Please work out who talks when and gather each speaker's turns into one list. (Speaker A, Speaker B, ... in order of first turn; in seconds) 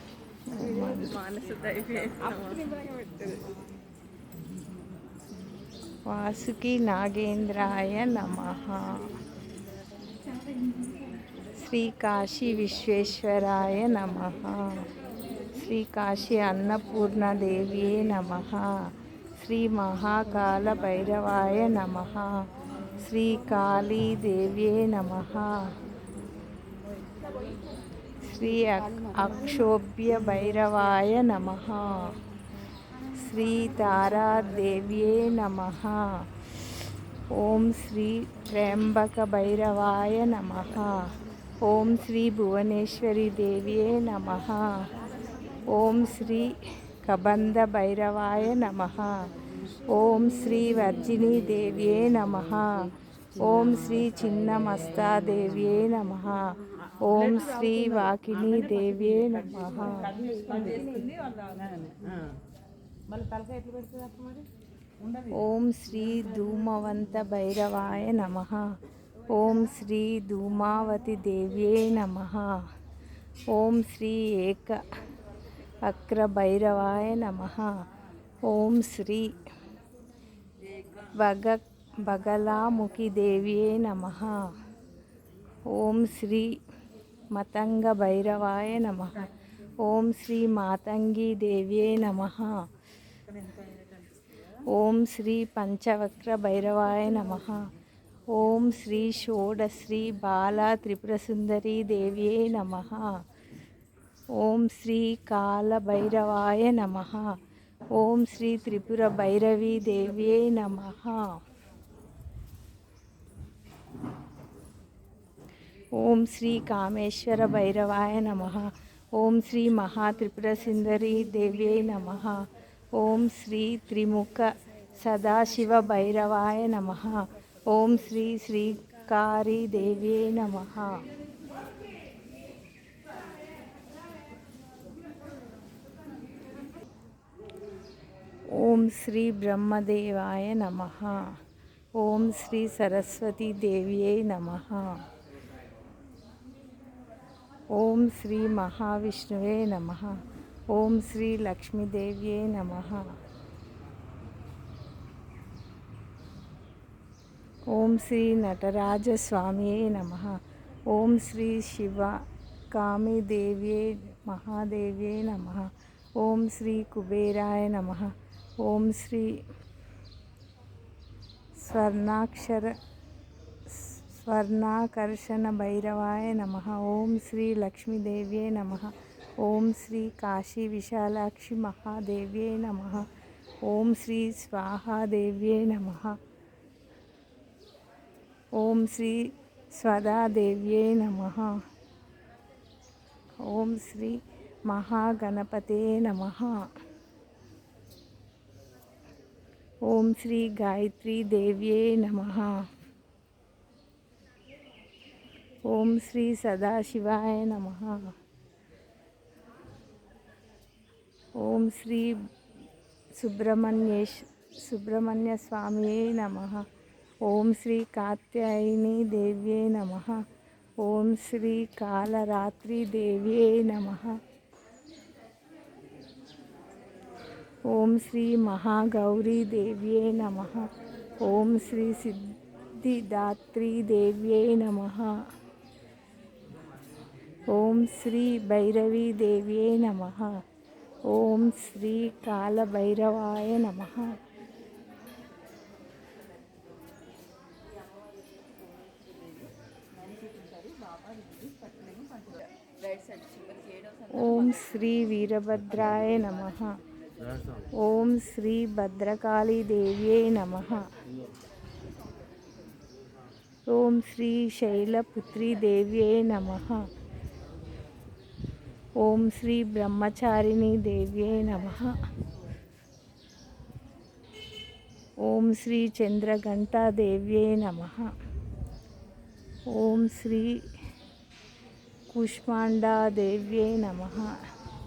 Speaker A: 0.5-1.2, 6.1-9.2, 11.6-14.9, 15.5-22.4, 23.0-25.7, 28.2-32.1, 33.2-36.6, 37.3-44.9, 45.7-49.3, 49.9-60.1, 65.3-68.7, 69.3-72.6, 73.5-74.8, 75.8-77.8, 78.4-79.4, 81.0-84.5, 85.7-86.6, 87.3-92.6, 94.7-97.7, 98.3-103.2, 104.3-107.4, 107.9-111.3, 116.0-131.0, 138.5-141.4, 141.9-145.0, 147.7-153.2, 157.7-162.2, 162.7-169.4, 171.6-172.7, 173.7-183.1, 183.6-186.2, 188.6-191.6, 193.4-196.6, 199.8-202.6, 205.7-208.1, 211.4-212.2, 213.2-216.7, 217.2-220.2, 220.8-224.2, 227.7-235.2, 237.5-240.4, 241.1-244.2, 254.1-256.8, 257.7-260.9, 263.7-266.9, 269.0-272.0, 275.2-278.1, 279.7-280.6, 282.1-284.3
Speaker B: 0.5-3.5, 60.2-61.6, 251.7-252.5
Speaker C: 53.4-55.5, 57.0-62.4, 63.1-64.5, 65.0-65.5, 93.3-93.9